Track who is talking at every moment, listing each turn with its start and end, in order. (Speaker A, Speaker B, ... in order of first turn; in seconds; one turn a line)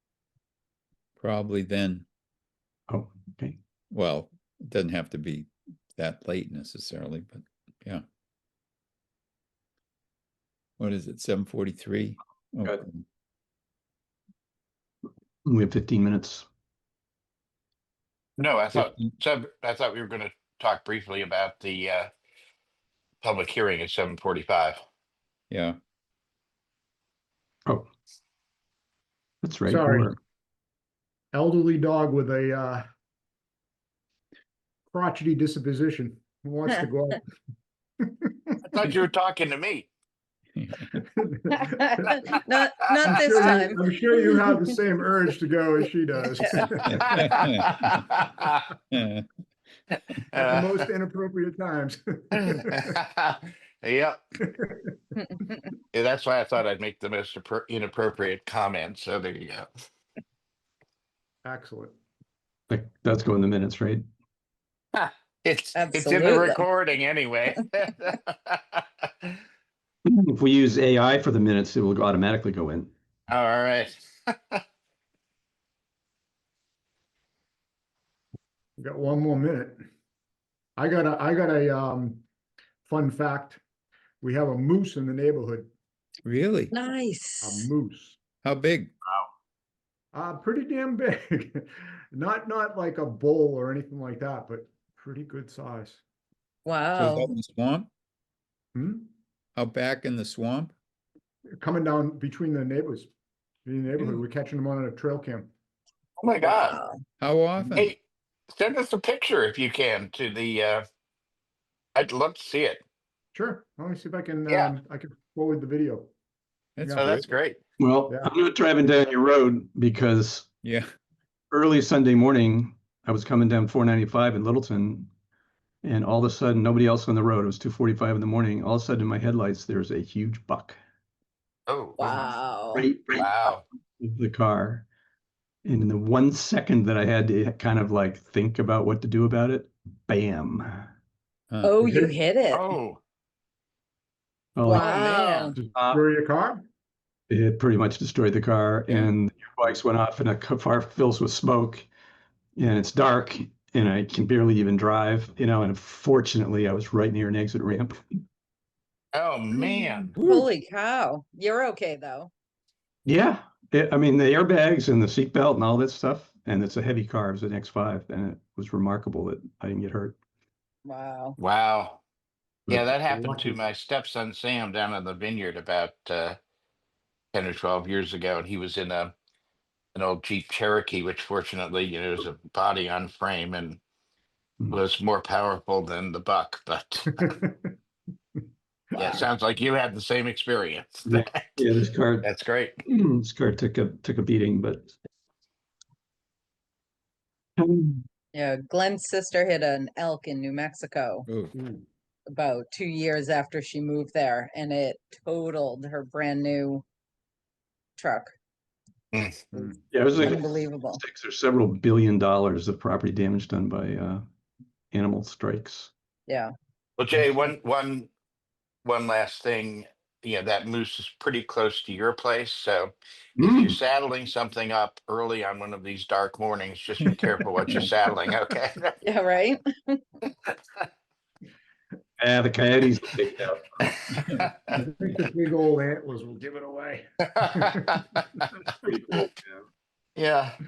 Speaker A: 1.2-2.0
Speaker B: 2.9-3.6
Speaker A: 3.9-8.0
Speaker A: 10.8-13.0
Speaker B: 15.4-16.4
Speaker C: 18.4-22.1
Speaker C: 23.2-24.8
Speaker A: 25.5-25.8
Speaker B: 29.4-30.2
Speaker D: 29.7-30.1
Speaker D: 31.3-32.8
Speaker D: 34.9-37.2
Speaker D: 38.0-38.6
Speaker C: 38.6-39.9
Speaker A: 40.5-40.9
Speaker D: 41.0-42.4
Speaker E: 41.6-44.5
Speaker D: 43.0-47.5
Speaker C: 43.0-43.5
Speaker E: 46.4-46.9
Speaker C: 46.9-48.6
Speaker A: 46.9-48.0
Speaker A: 48.9-49.2
Speaker C: 50.3-50.9
Speaker D: 50.3-52.9
Speaker C: 52.3-54.2
Speaker D: 54.5-54.9
Speaker E: 55.2-55.6
Speaker C: 55.9-59.7
Speaker D: 61.4-61.9
Speaker B: 62.7-64.0
Speaker C: 64.9-69.3
Speaker E: 65.7-66.6
Speaker B: 70.0-72.9
Speaker C: 73.3-74.6
Speaker D: 78.8-79.8
Speaker D: 80.8-82.2
Speaker D: 82.8-83.6
Speaker D: 84.2-85.7
Speaker A: 86.2-86.7
Speaker E: 86.7-87.7
Speaker D: 87.4-88.2
Speaker A: 88.4-88.9
Speaker D: 90.1-96.0
Speaker E: 96.6-97.3
Speaker A: 97.0-97.9
Speaker D: 98.7-99.1
Speaker A: 99.5-100.7
Speaker D: 101.6-103.1
Speaker D: 103.7-105.5
Speaker C: 106.2-106.8
Speaker E: 106.4-107.0
Speaker A: 107.2-107.9
Speaker C: 108.5-110.8
Speaker C: 111.9-112.8
Speaker D: 113.3-116.1
Speaker A: 116.8-117.3
Speaker D: 116.8-117.1
Speaker C: 116.9-117.6
Speaker B: 117.8-120.5
Speaker B: 121.5-125.1
Speaker B: 125.8-130.8
Speaker C: 131.7-132.3
Speaker E: 132.0-132.9
Speaker B: 132.7-134.9
Speaker C: 133.1-133.6
Speaker B: 135.6-140.9
Speaker A: 141.5-141.8
Speaker E: 141.6-142.7
Speaker C: 142.5-143.0
Speaker B: 144.6-144.9
Speaker E: 144.6-145.6
Speaker C: 144.7-145.6
Speaker D: 145.5-146.6
Speaker B: 145.7-146.0
Speaker B: 147.3-151.9
Speaker B: 152.6-158.0
Speaker C: 159.1-160.1
Speaker E: 159.5-162.3
Speaker A: 160.2-160.4
Speaker B: 163.1-170.2
Speaker E: 170.8-171.4
Speaker C: 171.4-172.0
Speaker B: 172.7-173.5
Speaker C: 172.7-176.4
Speaker C: 177.3-179.1
Speaker C: 179.9-183.8
Speaker C: 184.7-187.3
Speaker D: 187.2-187.7
Speaker D: 188.9-189.2
Speaker C: 188.9-191.4
Speaker B: 191.1-192.3
Speaker C: 192.2-192.8
Speaker B: 192.8-194.9
Speaker B: 197.6-198.0
Speaker E: 198.3-201.4
Speaker A: 201.3-201.5
Speaker D: 201.5-201.8
Speaker E: 202.3-206.8
Speaker E: 208.0-208.3
Speaker C: 209.1-209.4
Speaker D: 209.5-209.8
Speaker B: 209.9-214.2
Speaker E: 210.2-211.0
Speaker B: 214.9-215.9
Speaker C: 217.0-218.1
Speaker C: 218.8-228.9
Speaker B: 223.4-223.8
Speaker E: 229.0-230.0
Speaker B: 232.2-233.7
Speaker D: 234.7-238.2
Speaker C: 237.4-238.2
Speaker B: 238.6-239.6
Speaker C: 240.2-240.6